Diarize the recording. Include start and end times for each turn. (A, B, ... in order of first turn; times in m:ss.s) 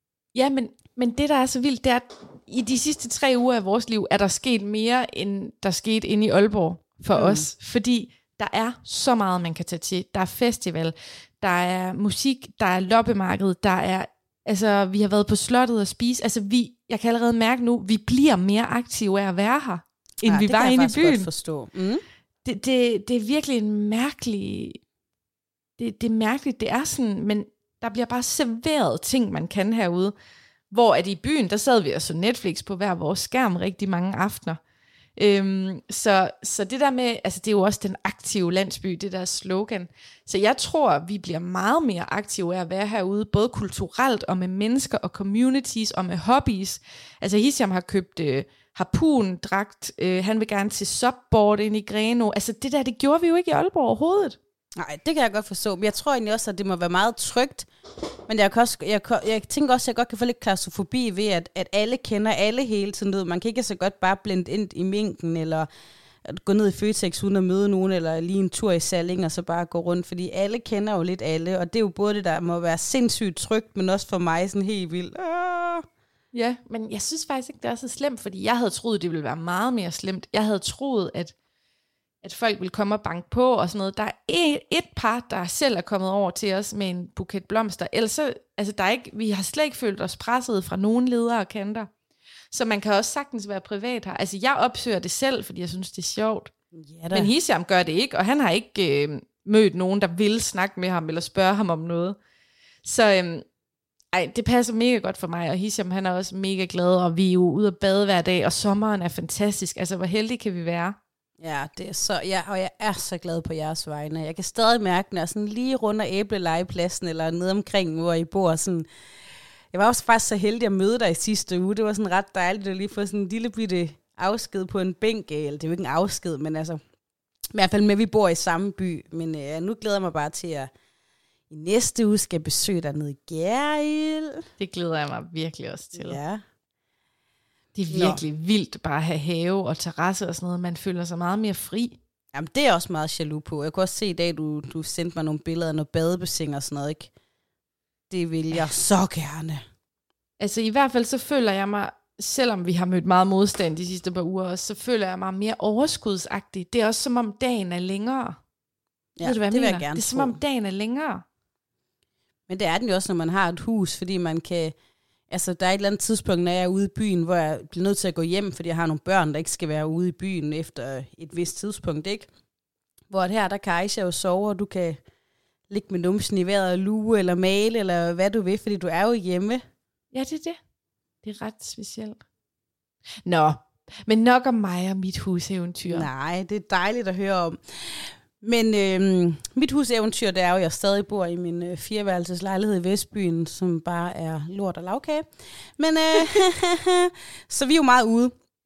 0:00.3-0:21.3 A
0:07.1-0:07.5 B
0:20.2-0:22.0 B
0:22.4-0:24.8 A
0:25.8-0:30.1 A
0:30.7-0:34.6 A
0:35.2-0:54.4 A
0:54.8-0:57.7 B
0:58.3-1:05.7 B
1:06.2-1:15.8 B
1:16.3-1:21.3 A
1:22.2-1:31.9 A
1:32.5-1:36.5 A
1:36.8-1:37.3 B
1:37.1-1:42.2 A
1:42.8-1:43.4 A
1:44.1-1:51.0 A
1:51.4-1:58.8 B
1:59.7-2:06.8 B
2:07.5-2:10.7 B
2:11.5-2:14.4 B
2:14.6-2:16.2 A
2:15.9-2:16.4 B
2:17.7-2:22.0 A
2:17.9-2:18.2 B
2:22.3-2:27.1 B
2:28.1-2:29.6 B
2:30.4-2:38.4 A
2:39.2-2:40.4 B
2:39.2-2:41.2 A
2:42.5-2:44.7 B
2:45.3-2:52.3 B
2:53.1-2:55.0 B
2:55.7-2:59.6 B
3:00.1-3:00.6 A
3:01.2-3:02.2 A
3:03.2-3:06.1 A
3:05.9-3:15.2 B
3:15.8-3:18.3 B